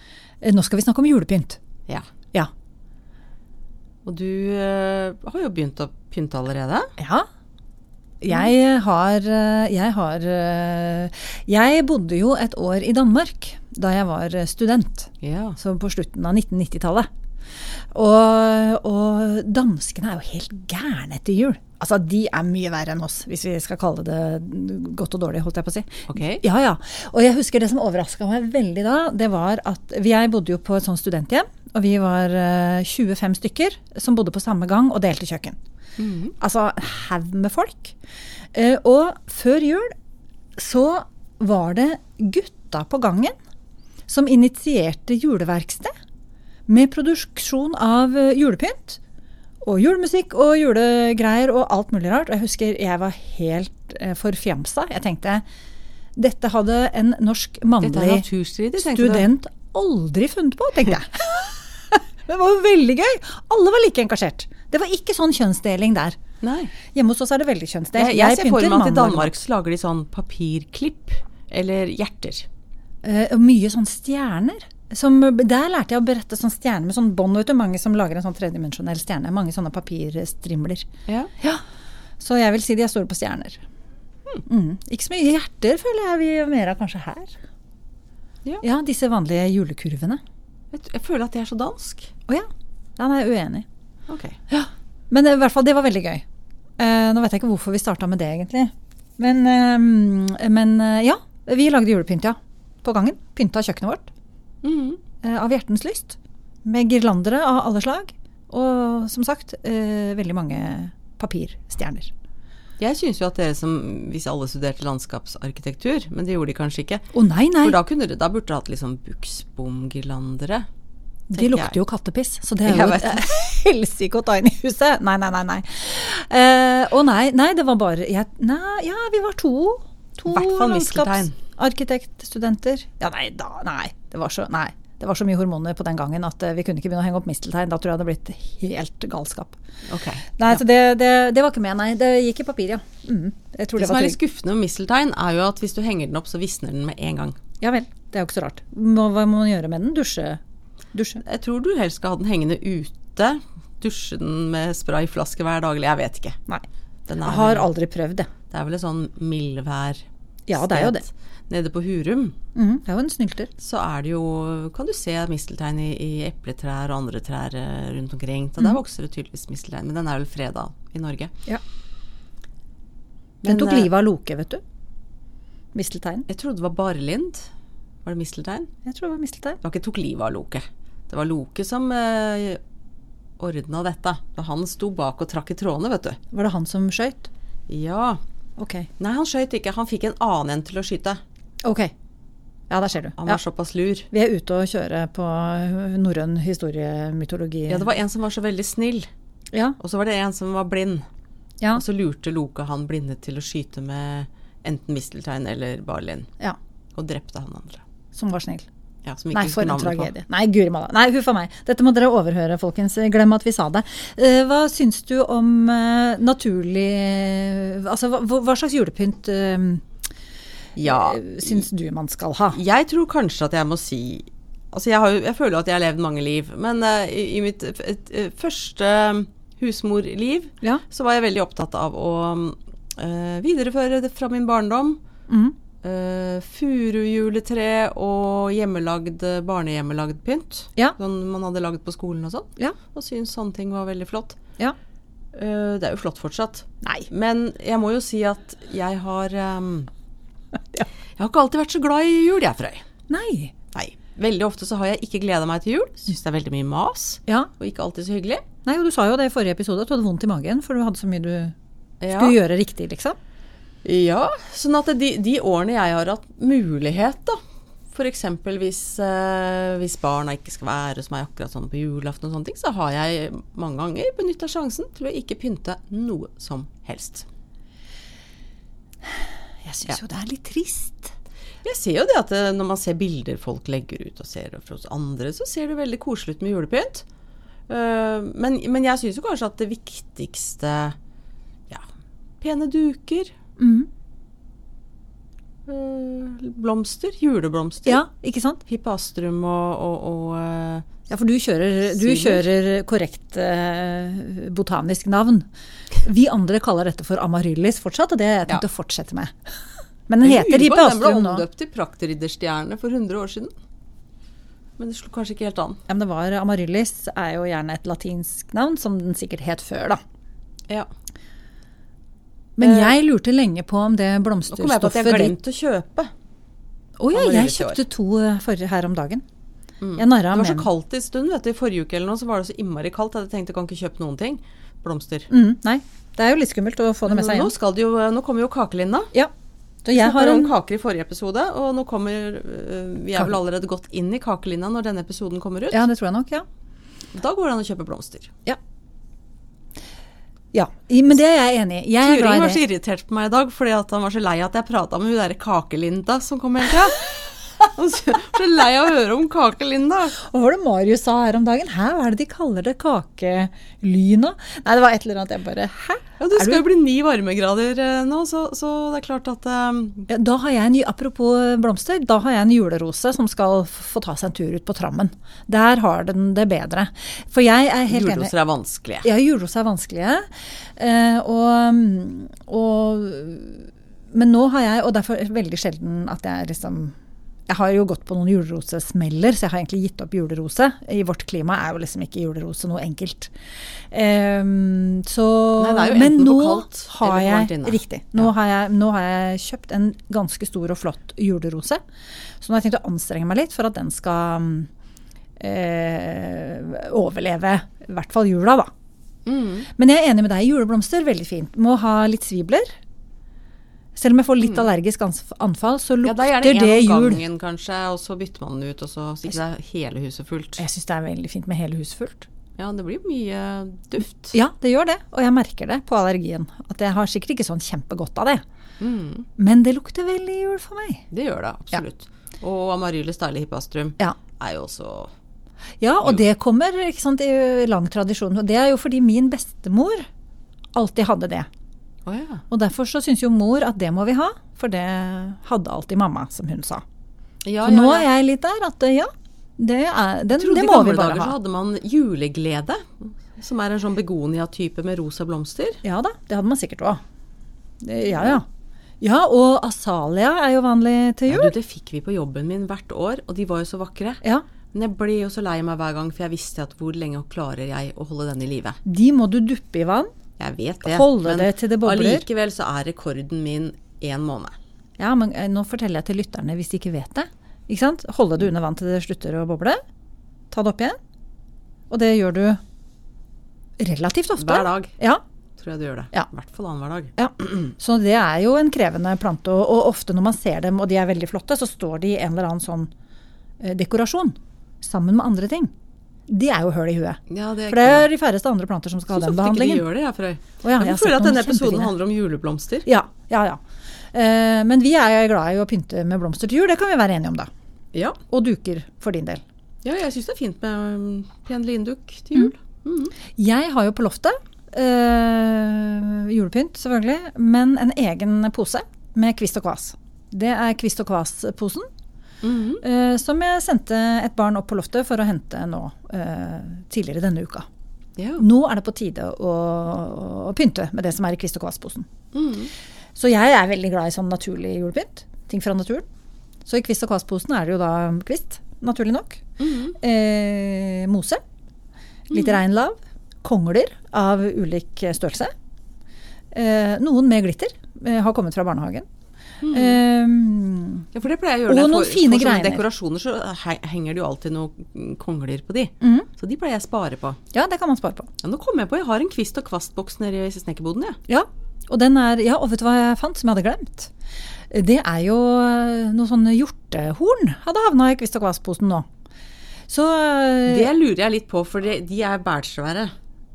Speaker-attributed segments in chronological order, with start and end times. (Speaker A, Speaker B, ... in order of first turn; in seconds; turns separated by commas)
Speaker A: 0.4-1.6, Speaker B: 4.0-6.9, Speaker A: 7.0-7.3, Speaker A: 8.2-17.1, Speaker B: 15.2-15.6, Speaker A: 17.9-35.6, Speaker B: 26.1-26.4, Speaker B: 36.0-36.4, Speaker A: 36.4-38.0, Speaker A: 38.5-39.9, Speaker A: 40.6-43.3, Speaker A: 44.1-45.9, Speaker A: 46.7-49.0, Speaker A: 49.6-55.4, Speaker A: 56.2-58.3, Speaker B: 57.8-59.3, Speaker A: 58.9-66.2, Speaker B: 66.4-66.7, Speaker A: 66.9-69.3, Speaker B: 68.0-72.5, Speaker A: 73.0-80.9, Speaker B: 81.1-81.3, Speaker A: 82.2-83.6, Speaker A: 84.5-87.3, Speaker A: 88.6-90.2, Speaker B: 90.7-92.1, Speaker A: 93.0-93.7, Speaker B: 94.1-94.4, Speaker A: 94.5-96.2, Speaker A: 96.8-104.1, Speaker B: 104.6-105.0, Speaker A: 105.2-112.1, Speaker B: 112.8-117.1, Speaker A: 117.1-117.8, Speaker B: 117.6-120.7, Speaker A: 121.3-139.6, Speaker B: 121.3-121.8, Speaker B: 122.7-123.2, Speaker B: 130.3-131.4, Speaker B: 139.9-140.4, Speaker A: 140.4-144.2, Speaker B: 143.8-147.4, Speaker A: 147.6-150.4, Speaker A: 150.9-151.2, Speaker B: 151.2-156.4, Speaker B: 157.1-157.7, Speaker A: 157.2-158.3, Speaker B: 158.5-162.3, Speaker A: 160.5-161.1, Speaker A: 162.6-163.5, Speaker B: 163.6-171.3, Speaker B: 173.4-173.9, Speaker A: 173.4-174.6, Speaker A: 175.7-176.3, Speaker B: 176.3-177.5, Speaker B: 178.0-178.7, Speaker A: 178.8-179.6, Speaker B: 179.6-182.6, Speaker B: 183.4-186.2, Speaker A: 186.3-187.3, Speaker B: 187.7-188.2, Speaker A: 188.6-188.9, Speaker B: 189.0-191.2, Speaker A: 191.6-191.9, Speaker A: 192.7-193.4, Speaker B: 193.2-194.1, Speaker A: 194.1-197.9, Speaker B: 197.7-199.1, Speaker B: 199.8-201.1, Speaker B: 201.8-206.3, Speaker B: 206.9-207.8, Speaker A: 208.1-208.7, Speaker B: 209.1-210.1, Speaker A: 209.3-219.8, Speaker B: 220.8-221.6, Speaker A: 220.8-222.6, Speaker B: 222.5-235.0, Speaker A: 235.3-235.6, Speaker B: 235.8-244.4, Speaker B: 245.3-249.9, Speaker A: 246.8-247.1, Speaker B: 251.2-252.8, Speaker A: 253.1-253.5, Speaker B: 253.7-258.4, Speaker A: 258.6-261.5, Speaker B: 262.0-262.4, Speaker A: 262.1-263.2, Speaker B: 263.8-267.4, Speaker B: 267.9-277.3, Speaker A: 279.6-281.1, Speaker B: 281.6-287.1, Speaker B: 287.7-291.0, Speaker B: 292.4-293.3, Speaker A: 293.6-293.9, Speaker B: 295.7-298.0, Speaker A: 297.9-298.6, Speaker B: 298.7-300.9, Speaker A: 301.1-305.5, Speaker B: 301.9-302.4, Speaker A: 306.0-309.3, Speaker A: 310.1-311.4, Speaker B: 310.2-313.5, Speaker B: 314.8-315.8, Speaker A: 315.9-320.0, Speaker A: 322.6-325.4, Speaker B: 322.6-323.0, Speaker B: 324.5-326.1, Speaker A: 327.0-329.2, Speaker B: 327.1-327.8, Speaker B: 329.8-335.3, Speaker A: 330.0-330.7, Speaker A: 335.3-337.5, Speaker B: 337.1-339.1, Speaker A: 339.9-340.6, Speaker B: 339.9-345.8, Speaker A: 345.7-346.4, Speaker B: 347.1-348.3, Speaker A: 350.5-352.6, Speaker B: 352.0-360.2, Speaker A: 360.2-366.6, Speaker B: 366.2-370.1, Speaker A: 370.1-378.3, Speaker B: 377.9-379.1, Speaker A: 379.0-380.2, Speaker A: 380.8-386.9, Speaker A: 387.5-393.3, Speaker A: 393.9-401.8, Speaker B: 395.6-398.3, Speaker A: 402.4-404.7, Speaker A: 405.4-408.7, Speaker B: 409.3-409.7, Speaker A: 409.8-412.7, Speaker A: 414.0-417.2, Speaker B: 416.0-420.6, Speaker A: 420.6-422.3, Speaker B: 422.6-424.4, Speaker A: 424.3-428.4, Speaker B: 428.8-429.3, Speaker A: 429.4-431.1, Speaker B: 431.1-435.1, Speaker A: 435.8-440.1, Speaker A: 440.8-441.5, Speaker B: 442.1-442.4, Speaker A: 442.5-446.8, Speaker B: 447.4-448.1, Speaker A: 447.6-451.4, Speaker B: 450.4-455.8, Speaker A: 455.8-457.0, Speaker A: 457.8-458.5, Speaker A: 459.0-461.5, Speaker B: 461.3-464.2, Speaker B: 464.7-468.8, Speaker A: 468.9-470.1, Speaker B: 470.4-474.5, Speaker A: 470.8-472.2, Speaker A: 475.0-479.8, Speaker A: 480.5-481.0, Speaker A: 481.9-482.6, Speaker A: 483.8-485.2, Speaker B: 484.4-484.9, Speaker B: 485.6-487.7, Speaker A: 487.2-492.9, Speaker A: 493.6-495.7, Speaker A: 496.3-499.9, Speaker B: 497.3-498.1, Speaker B: 499.1-502.9, Speaker A: 500.6-501.9, Speaker A: 502.9-503.6, Speaker A: 504.1-507.5, Speaker B: 507.9-508.2, Speaker A: 508.3-509.4, Speaker B: 509.8-513.1, Speaker A: 513.4-521.9, Speaker B: 522.4-522.8, Speaker A: 522.8-527.7, Speaker B: 528.2-528.4, Speaker A: 528.4-532.1, Speaker B: 532.3-532.7, Speaker A: 533.2-536.0, Speaker A: 536.7-539.4, Speaker B: 539.6-540.0, Speaker A: 540.0-541.4, Speaker A: 542.3-545.5, Speaker B: 542.3-542.6, Speaker A: 546.5-549.1, Speaker B: 549.6-550.0, Speaker A: 549.7-551.1, Speaker B: 551.1-557.4, Speaker A: 551.7-552.9, Speaker A: 556.0-556.3, Speaker A: 557.5-558.3, Speaker B: 558.4-561.2, Speaker A: 561.3-564.1, Speaker A: 564.7-569.1, Speaker A: 569.9-570.9, Speaker B: 570.7-573.1